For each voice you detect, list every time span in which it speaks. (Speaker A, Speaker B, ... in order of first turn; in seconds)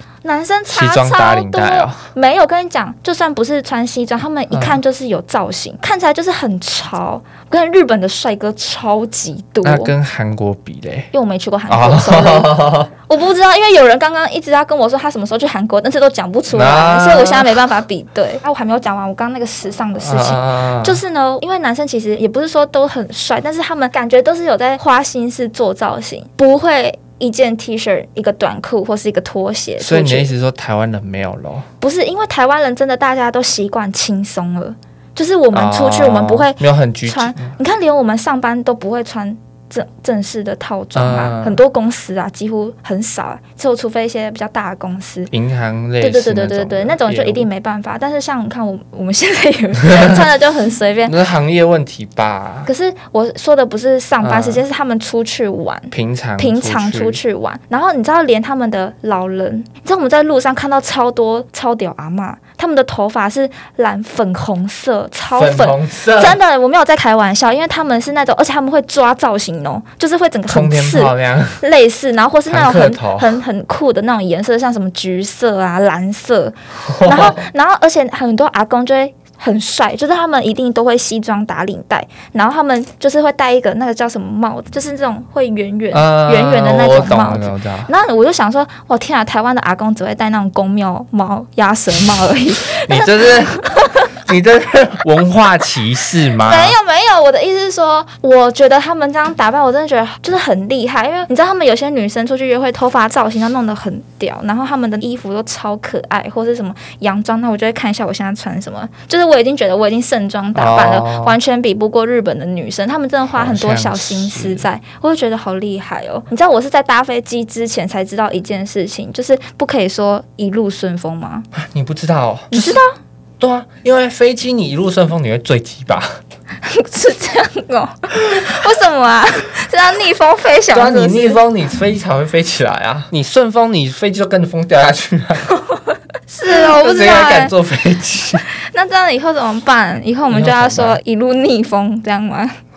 Speaker A: 0.2-9.9, 11.1-30.3, 31.8-45.3, 46.0-51.1, 52.7-94.1, 96.3-121.5, 122.5-123.0, 126.6-131.4, 136.3-137.5, 138.6-142.6
Speaker B: 0.7-2.1, 4.5-4.8, 9.6-11.1, 11.7-12.9, 16.5-17.7, 20.0-21.0, 29.8-31.7, 35.5-37.5, 41.0-41.6, 45.3-47.5, 51.1-52.7, 54.2-54.6, 55.9-57.2, 65.3-66.4, 70.5-71.6, 72.5-73.4, 76.8-77.5, 85.9-87.9, 92.8-93.6, 94.2-96.8, 110.5-111.4, 113.3-114.7, 121.5-122.8, 123.4-126.2, 130.7-135.5, 136.5-138.5, 140.3-141.0